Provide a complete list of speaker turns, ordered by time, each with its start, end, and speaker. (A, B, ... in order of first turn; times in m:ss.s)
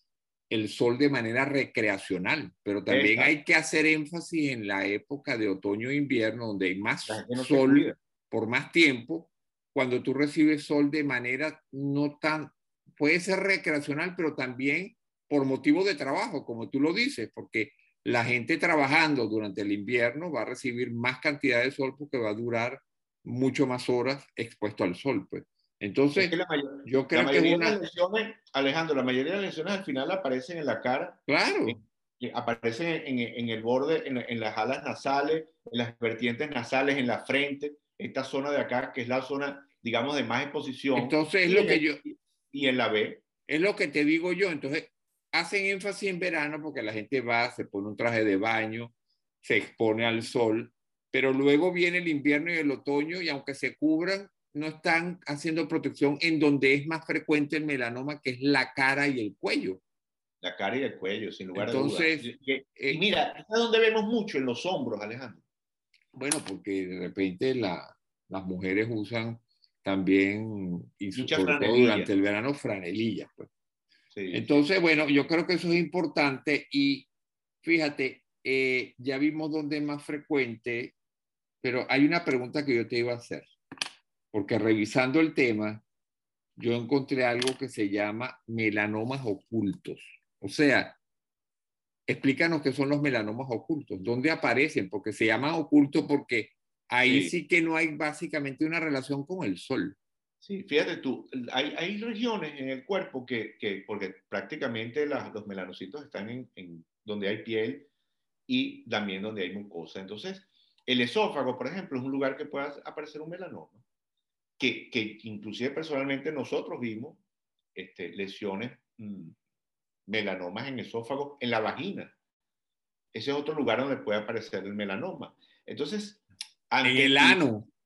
0:00.5-0:27.8 A
0:02.9-0:03.4 B
0:07.1-0:08.0 B
0:26.2-0:43.2 B
0:31.3-0:31.8 A
0:41.0-0:42.0 A
0:43.5-0:59.8 A
1:00.4-1:05.4 B
1:01.6-1:03.0 A
1:06.1-1:13.5 A
1:11.1-1:12.1 B
1:14.1-1:14.5 B
1:14.3-1:17.1 A
1:17.6-1:21.0 A
1:21.6-1:23.6 A
1:24.3-1:25.8 A
1:26.6-1:31.0 A
1:32.1-1:40.0 A
1:37.0-1:37.4 B
1:40.4-1:47.9 B
1:48.5-1:53.8 B
1:54.6-1:57.2 B
1:57.8-1:59.3 B
2:00.1-2:02.1 B
2:03.1-2:07.4 B
2:06.8-2:07.7 A